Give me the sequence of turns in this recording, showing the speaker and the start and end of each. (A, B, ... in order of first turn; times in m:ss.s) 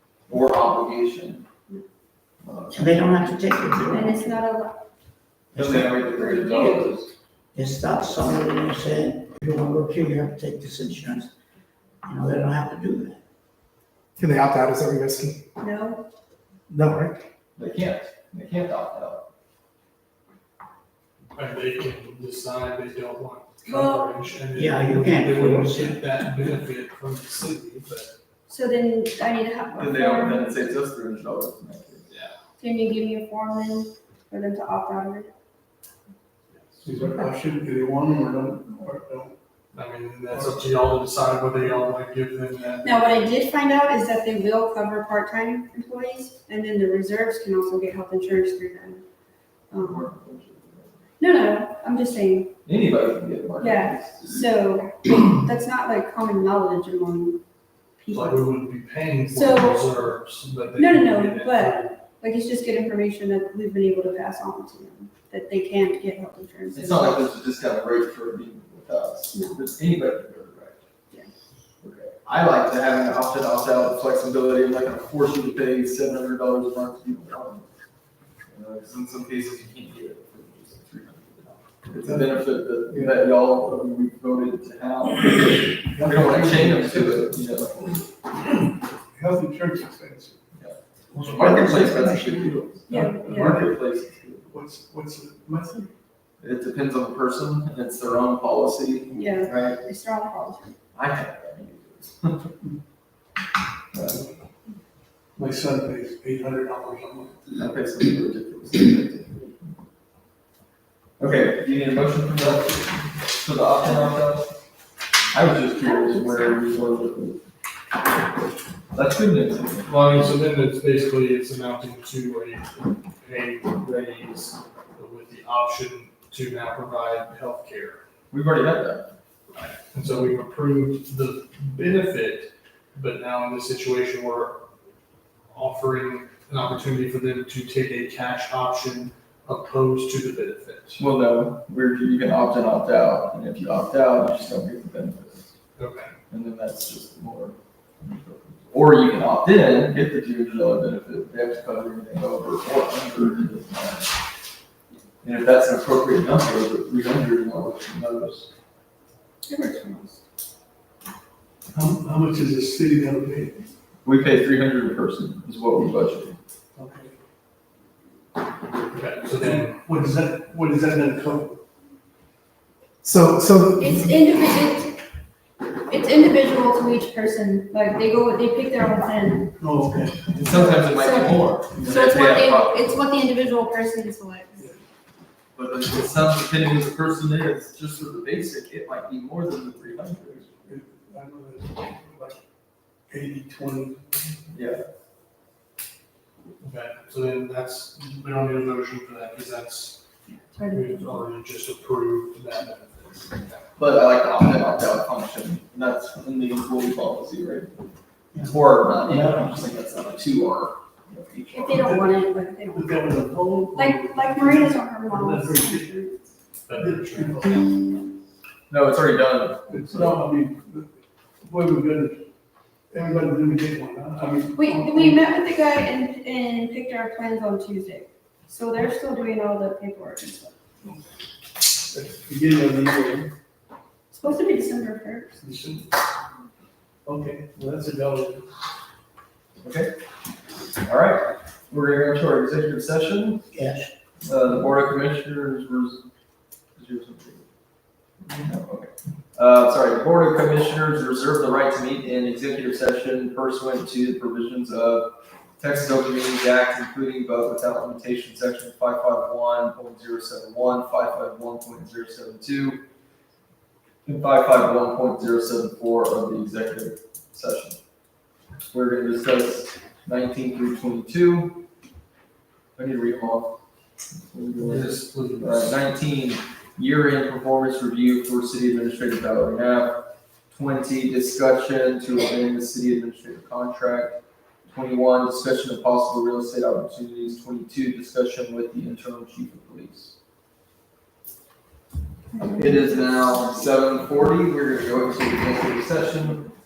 0:00.3-0:01.4 A
0:02.4-0:03.0 A
0:02.7-0:04.3 B
0:03.9-0:04.8 C
0:05.5-0:07.1 A
0:05.5-0:06.0 B
0:06.0-0:07.0 C
0:07.5-0:11.3 B
0:12.0-0:13.2 B
0:14.2-0:15.4 D
0:15.6-0:16.0 C
0:16.7-0:17.2 D
0:17.6-0:19.2 A
0:21.3-0:28.1 E
0:23.6-0:24.1 C
0:24.5-0:26.0 B
0:28.5-0:30.5 C
0:29.8-0:32.1 A
0:32.6-0:35.3 C
0:36.5-0:36.8 E
0:36.8-0:39.3 F
0:39.7-0:42.9 E
0:40.3-0:40.6 F
0:42.8-0:49.0 C
0:49.7-0:50.0 C
0:49.7-0:51.0 A
0:51.2-0:52.5 C
0:52.6-0:54.3 A
0:53.6-0:57.4 C
0:58.0-0:58.5 C
0:58.1-1:01.9 E
0:59.3-0:59.9 C
1:00.8-1:07.2 C
1:06.7-1:10.8 A
1:09.3-1:09.6 C
1:11.8-1:17.6 A
1:18.5-1:28.1 A
1:25.9-1:27.3 F
1:29.1-1:30.4 F
1:30.6-1:34.5 A
1:31.1-1:32.6 B
1:32.9-1:33.6 C
1:32.9-1:33.7 F
1:34.5-1:35.9 F
1:36.4-1:39.8 A
1:39.1-1:40.7 C
1:41.0-1:42.5 A
1:43.9-1:44.2 A
1:45.4-1:47.4 F
1:47.6-1:49.6 A
1:51.2-1:54.5 A
1:55.3-1:57.4 A
1:55.8-1:56.7 C
1:58.9-1:59.9 A
1:59.8-2:08.0 E
2:08.3-2:09.1 A
2:09.5-2:14.6 E
2:15.5-2:21.0 E
2:21.0-2:25.5 A
2:25.8-2:26.1 E
2:26.3-2:34.1 A
2:35.2-2:38.5 A
2:39.4-2:40.2 C
2:41.7-2:43.6 F
2:44.0-2:46.4 A
2:46.8-2:47.1 F
2:48.9-2:49.8 E
2:49.4-2:51.6 F
2:53.0-2:54.1 D
2:53.8-2:55.0 C
2:55.9-2:59.5 C
2:59.6-3:00.3 F
3:00.3-3:03.0 A
3:00.4-3:04.6 C
3:01.8-3:02.0 F
3:05.5-3:10.6 A
3:10.6-3:12.4 F
3:13.1-3:14.2 F
3:14.5-3:14.8 A
3:16.6-3:20.0 E
3:20.3-3:21.2 C
3:20.7-3:23.6 E
3:23.8-3:31.9 A
3:28.3-3:29.7 B
3:31.5-3:32.9 C
3:31.7-3:32.1 F
3:32.7-3:35.8 F
3:33.7-3:36.2 C
3:36.7-3:37.6 E
3:36.8-3:37.7 F
3:38.7-3:40.0 A
3:39.7-3:40.9 F
3:41.4-3:42.2 F
3:42.9-3:45.3 F
3:44.6-3:50.5 C
3:51.8-3:53.3 F
3:54.1-3:55.4 C
3:55.4-3:55.9 F
3:57.0-3:58.5 F
3:59.6-3:59.9 A
4:00.8-4:03.5 A
4:03.5-4:03.9 B
4:04.2-4:06.0 A
4:06.8-4:07.4 A
4:08.3-4:22.8 A
4:24.0-4:27.8 A
4:28.6-4:31.6 A
4:32.8-4:33.5 A
4:34.3-4:50.1 A
4:34.6-4:35.7 E
4:52.3-4:53.4 C
4:52.6-4:56.5 A